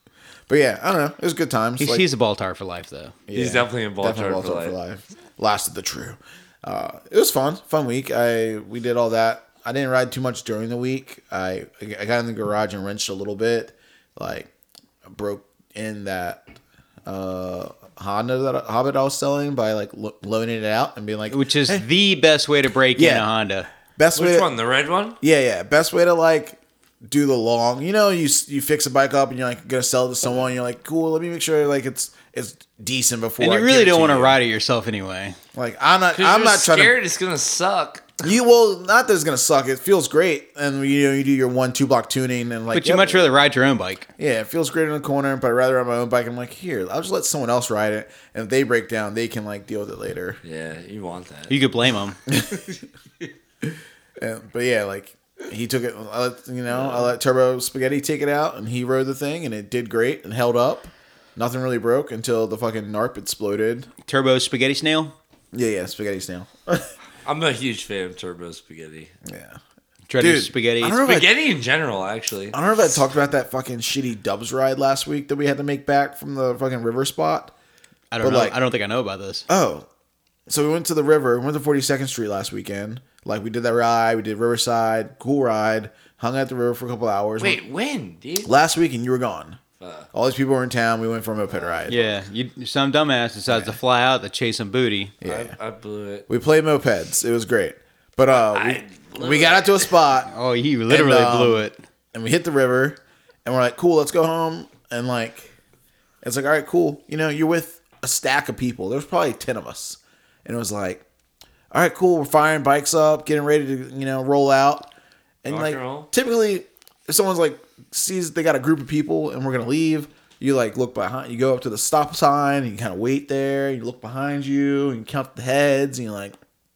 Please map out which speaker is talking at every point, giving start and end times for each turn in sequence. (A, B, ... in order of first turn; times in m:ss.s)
0:00.5-0:02.0 A
0:01.8-0:03.2 B
0:03.3-0:14.5 A
0:03.3-0:04.8 C
0:15.1-0:16.4 A
0:17.0-0:21.8 A
0:21.3-0:23.7 B
0:22.9-0:23.3 A
0:23.9-0:24.5 A
0:24.1-0:25.2 C
0:25.2-0:34.4 A
0:33.4-0:35.4 B
0:35.5-0:36.9 A
0:36.1-0:38.1 C
0:38.2-0:43.3 A
0:42.7-0:44.1 B
0:44.2-0:50.4 A
0:50.4-0:51.5 C
0:51.5-0:52.2 B
0:52.3-0:52.6 A
0:53.6-1:03.9 A
0:56.7-0:57.1 C
1:04.0-1:05.1 B
1:05.5-1:06.9 A
1:07.2-1:09.1 C
1:09.2-1:09.6 A
1:10.1-1:11.0 B
1:10.2-1:11.3 A
1:10.9-1:12.6 C
1:12.5-1:17.5 A
1:18.1-1:19.5 B
1:18.2-1:18.6 A
1:19.5-1:19.8 A
1:20.5-1:27.6 A
1:27.4-1:28.5 C
1:28.4-1:29.6 A
1:29.8-1:30.1 C
1:30.1-1:32.0 A
1:31.5-1:32.1 C
1:31.9-1:35.1 B
1:33.5-1:33.8 A
1:35.2-1:35.5 A
1:35.2-1:36.2 C
1:36.3-1:40.3 A
1:38.3-1:40.0 C
1:40.3-1:41.8 B
1:40.9-1:45.5 A
1:46.2-1:51.0 A
1:51.7-1:54.9 A
1:55.4-2:06.4 A
1:55.4-1:56.1 C